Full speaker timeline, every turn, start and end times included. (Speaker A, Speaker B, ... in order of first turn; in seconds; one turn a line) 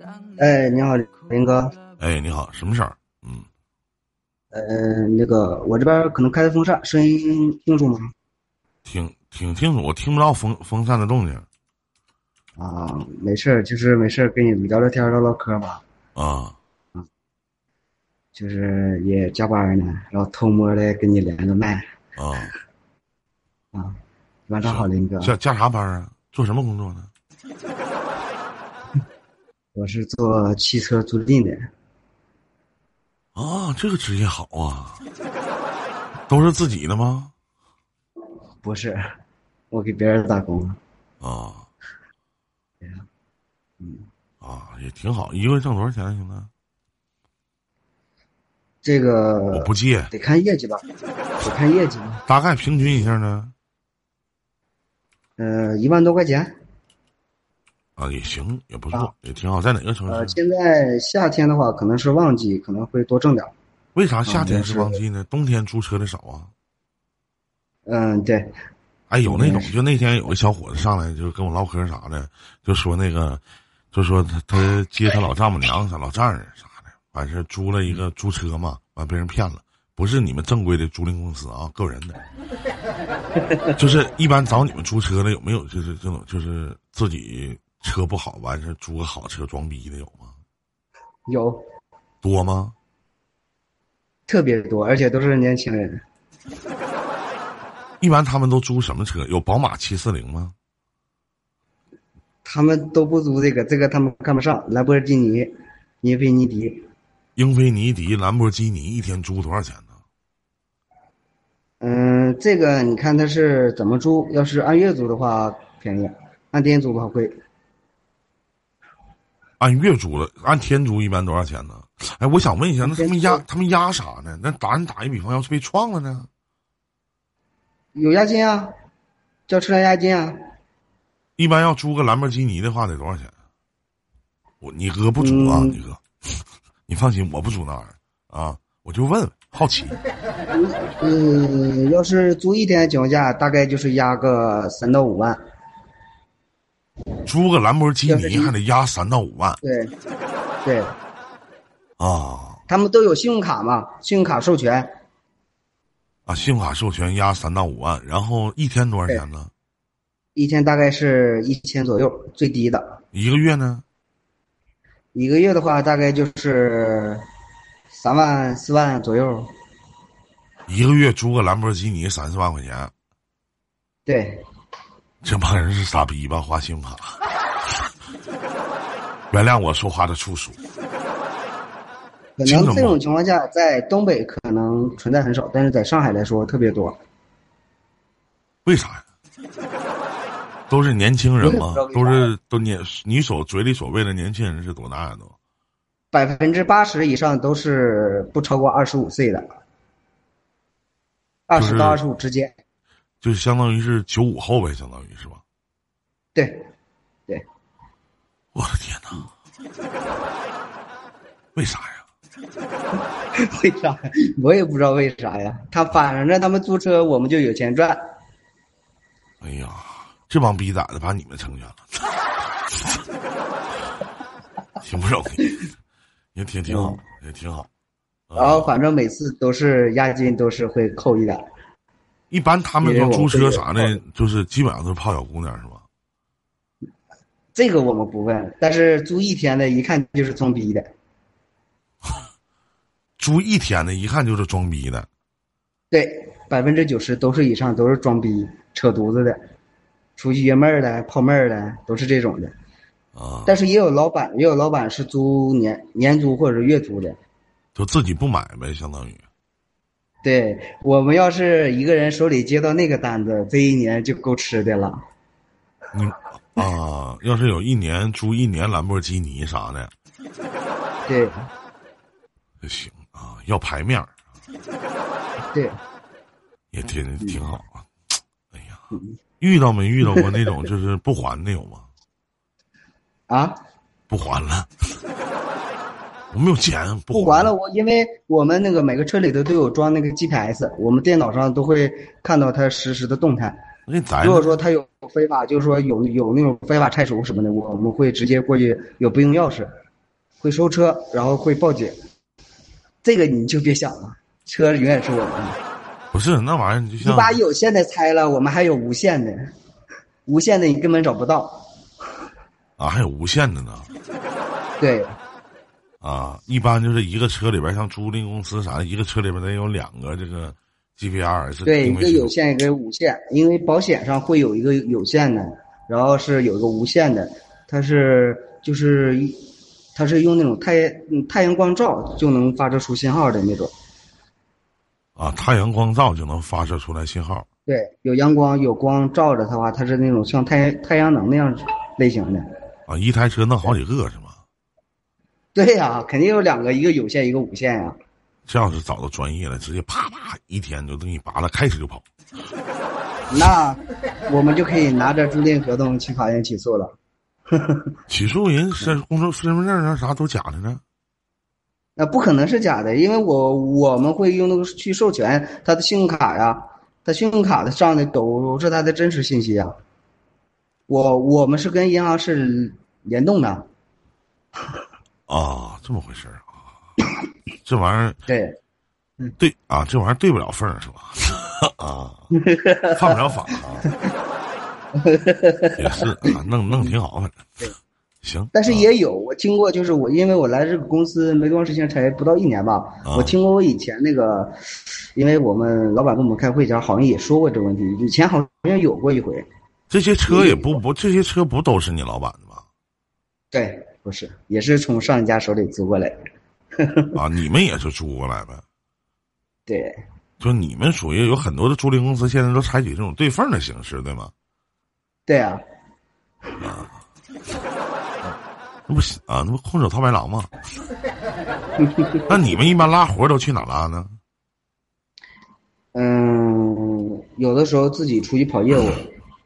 Speaker A: 0.4-1.7
Speaker B: 2.0-3.5
Speaker A: 4.5-8.1
Speaker B: 8.8-11.4
Speaker A: 12.6-15.8
Speaker B: 16.1-16.6
Speaker A: 18.3-21.9
Speaker B: 22.2-22.5
Speaker A: 23.7-25.3
Speaker B: 24.6-27.1
Speaker A: 29.7-31.7
Speaker B: 33.3-35.0
Speaker B: 36.3-37.3
Speaker A: 38.6-39.0
Speaker A: 39.7-40.8
Speaker B: 41.2-41.7
Speaker A: 43.8-44.1
Speaker B: 44.4-46.5
Speaker A: 48.8-50.8
Speaker B: 49.5-50.1
Speaker A: 51.4-52.2
Speaker B: 52.3-53.5
Speaker A: 55.4-56.5
Speaker B: 58.0-60.4
Speaker A: 60.1-63.5
Speaker B: 63.9-66.5
Speaker A: 64.2-65.0
Speaker A: 67.8-68.5
Speaker B: 69.1-73.4
Speaker A: 69.2-69.7
Speaker B: 73.9-82.2
Speaker B: 83.8-90.3
Speaker A: 91.3-91.6
Speaker B: 92.2-92.7
Speaker A: 94.3-96.0
Speaker B: 98.0-100.5
Speaker A: 102.4-106.8
Speaker B: 107.3-109.9
Speaker A: 111.8-117.3
Speaker B: 119.6-126.3
Speaker A: 122.8-123.4
Speaker A: 127.9-128.7
Speaker A: 129.5-130.4
Speaker B: 131.4-133.3
Speaker B: 134.6-140.0
Speaker A: 135.2-135.8
Speaker A: 140.5-145.4
Speaker B: 147.2-149.6
Speaker A: 148.1-148.5
Speaker A: 149.6-149.9
Speaker A: 150.6-150.9
Speaker B: 152.0-152.6
Speaker A: 152.7-154.9
Speaker B: 156.3-159.5
Speaker A: 160.3-163.0
Speaker B: 163.1-163.8
Speaker A: 165.1-167.2
Speaker A: 167.9-169.5
Speaker B: 170.7-172.9
Speaker A: 174.1-174.4
Speaker B: 175.2-177.2
Speaker B: 179.3-180.6
Speaker A: 182.4-187.0
Speaker B: 182.4-183.0
Speaker B: 188.6-189.0
Speaker B: 190.7-195.3
Speaker A: 191.4-192.3
Speaker A: 196.1-199.4
Speaker A: 201.5-202.5
Speaker B: 201.5-202.0
Speaker B: 203.2-205.4
Speaker A: 206.3-206.7
Speaker B: 208.5-209.2
Speaker B: 211.5-212.1
Speaker A: 213.3-218.0
Speaker B: 219.4-222.1
Speaker B: 224.8-225.6
Speaker B: 226.3-227.7
Speaker A: 226.7-227.0
Speaker B: 228.3-228.7
Speaker A: 228.3-231.4
Speaker B: 232.3-235.8
Speaker A: 232.8-234.0
Speaker A: 237.5-240.9
Speaker B: 243.2-245.1
Speaker A: 245.9-249.4
Speaker A: 250.2-252.5
Speaker B: 253.1-253.6
Speaker A: 253.5-257.2
Speaker B: 257.7-259.2
Speaker A: 260.2-265.0
Speaker B: 265.9-269.9
Speaker A: 271.1-271.5
Speaker B: 272.6-274.1
Speaker A: 275.5-275.8
Speaker B: 276.7-277.9
Speaker B: 278.5-278.8
Speaker A: 278.9-279.2
Speaker B: 279.4-281.9
Speaker A: 283.3-283.6
Speaker B: 284.1-284.7
Speaker B: 286.3-287.5
Speaker A: 287.1-293.6
Speaker B: 293.9-294.5
Speaker A: 294.2-299.7
Speaker A: 300.4-302.0
Speaker A: 303.0-305.6
Speaker B: 306.1-307.4
Speaker A: 307.0-309.5
Speaker A: 310.2-311.6
Speaker B: 312.8-313.9
Speaker A: 314.8-315.1
Speaker B: 316.0-322.3
Speaker A: 321.6-333.7
Speaker B: 335.1-337.4
Speaker A: 337.7-342.4
Speaker B: 342.9-344.4
Speaker A: 345.5-347.9
Speaker B: 348.5-352.0
Speaker A: 353.3-356.9
Speaker A: 357.5-357.9
Speaker B: 358.1-360.8
Speaker A: 362.0-369.7
Speaker A: 370.9-373.6
Speaker B: 375.3-376.5
Speaker B: 377.6-378.2
Speaker A: 378.3-378.6
Speaker B: 379.4-382.3
Speaker A: 382.3-383.1
Speaker B: 382.9-383.9
Speaker A: 385.0-385.8
Speaker B: 385.8-387.7
Speaker B: 388.2-388.9
Speaker A: 388.5-394.6
Speaker B: 393.0-393.4
Speaker A: 395.1-399.4
Speaker B: 399.9-402.6
Speaker A: 400.3-400.8
Speaker A: 403.5-406.1
Speaker A: 406.8-407.1
Speaker B: 407.1-408.6
Speaker A: 409.7-410.0
Speaker B: 410.4-414.3
Speaker A: 415.2-415.6
Speaker B: 416.6-416.9
Speaker B: 418.9-420.5
Speaker A: 421.8-422.1
Speaker B: 422.3-424.1
Speaker A: 425.9-429.1